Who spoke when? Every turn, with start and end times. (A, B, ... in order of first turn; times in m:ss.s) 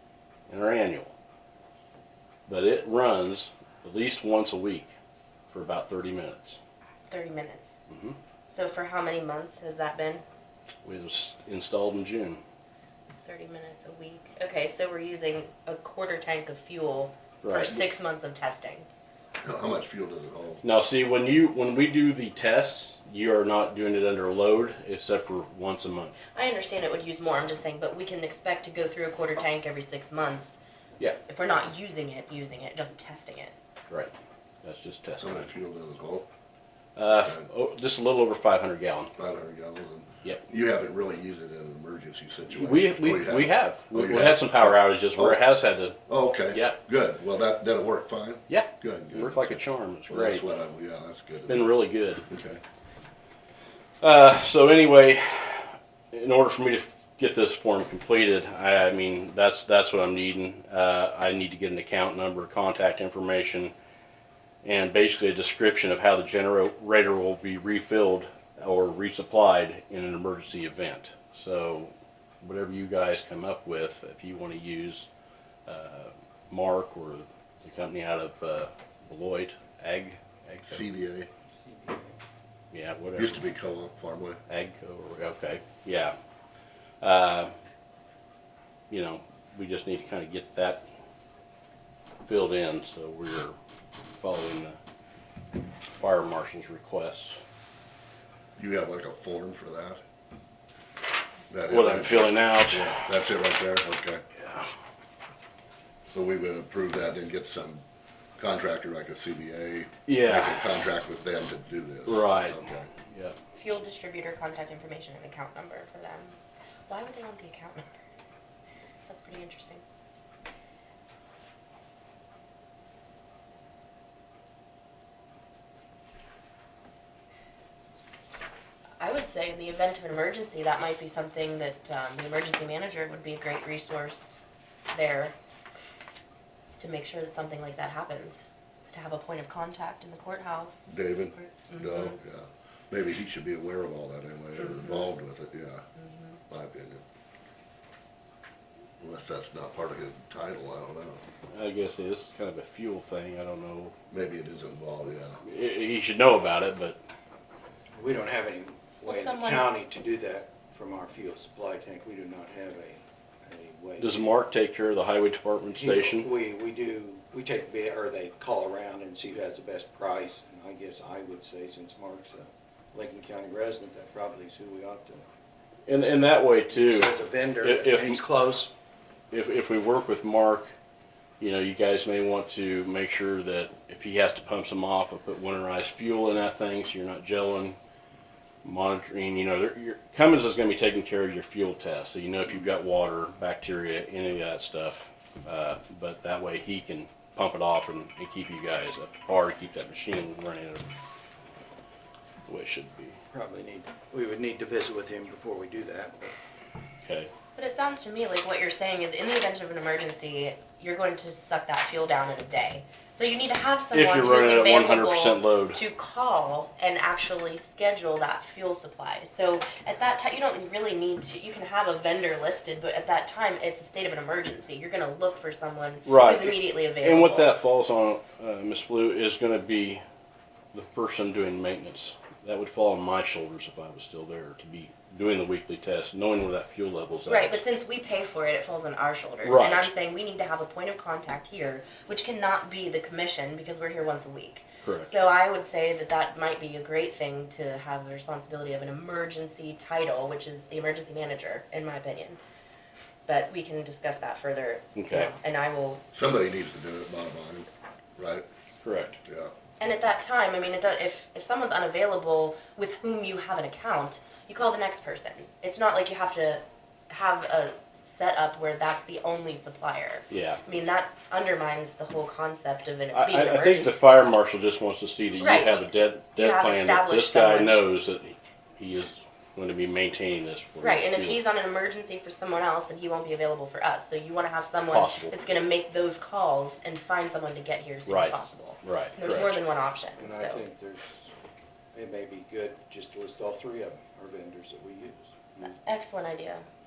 0:00.5-0:01.1 A
0:02.5-0:04.9 A
0:05.5-0:06.6 A
0:07.1-0:07.8 B
0:07.9-0:08.2 A
0:08.5-0:10.2 B
0:10.8-0:12.4 A
0:13.2-0:18.9 B
0:17.4-0:17.8 A
0:19.4-0:20.6 C
0:20.6-0:26.2 A
0:26.3-0:30.6 B
0:31.3-0:33.5 B
0:34.6-0:35.5 A
0:35.2-0:36.3 C
0:37.0-0:39.1 A
0:39.2-0:45.4 C
0:42.5-0:46.0 A
0:46.1-0:52.6 C
0:46.5-0:46.8 A
0:48.5-0:50.4 A
0:51.5-0:52.2 A
0:54.0-1:03.7 A
1:04.6-1:15.1 A
1:15.7-1:20.9 A
1:20.7-1:21.3 C
1:21.5-1:22.2 D
1:22.7-1:23.4 A
1:23.2-1:24.4 C
1:24.5-1:26.2 A
1:27.0-1:27.5 A
1:28.9-1:30.9 A
1:32.2-1:33.6 A
1:34.2-1:34.8 A
1:36.0-1:37.4 A
1:38.6-1:40.0 C
1:41.5-1:44.2 C
1:41.7-1:43.1 A
1:46.1-1:47.8 C
1:48.4-1:52.9 C
1:50.1-1:50.6 A
1:52.1-1:53.4 A
1:53.6-1:58.0 B
1:59.1-1:59.8 B
2:09.0-2:14.4 B
2:14.9-2:15.4 B
2:16.8-2:22.2 B
2:20.9-2:25.8 C
2:24.6-2:25.1 B
2:26.0-2:26.4 B
2:26.5-2:27.0 C
2:29.0-2:31.2 C
2:31.5-2:34.0 A
2:34.1-2:35.4 C
2:35.4-2:37.0 A
2:37.9-2:44.3 D
2:39.0-2:39.7 B
2:44.0-2:46.3 A
2:45.7-2:55.2 D
2:55.9-2:58.2 A
2:56.7-2:58.7 D
2:59.3-3:00.7 A
3:01.4-3:07.8 A
3:08.6-3:20.9 A
3:22.5-3:23.2 A
3:23.3-3:26.4 D
3:27.0-3:27.3 A
3:27.6-3:47.6 B
3:33.9-3:35.8 A
3:46.1-3:50.0 A
3:50.7-3:57.6 A
3:57.3-4:12.4 B
3:59.4-3:59.9 A
4:04.8-4:05.1 A
4:13.3-4:16.0 B
4:15.0-4:15.3 A
4:16.1-4:18.5 C
4:18.8-4:19.2 A
4:19.2-4:19.5 C
4:19.8-4:34.0 B
4:30.3-4:30.6 A
4:33.1-4:41.4 A
4:35.4-4:37.8 B
4:40.8-4:50.6 B
4:44.9-4:45.4 A
4:48.1-4:49.6 A
4:50.2-4:51.3 D
4:51.9-4:55.7 D
4:55.6-4:56.6 B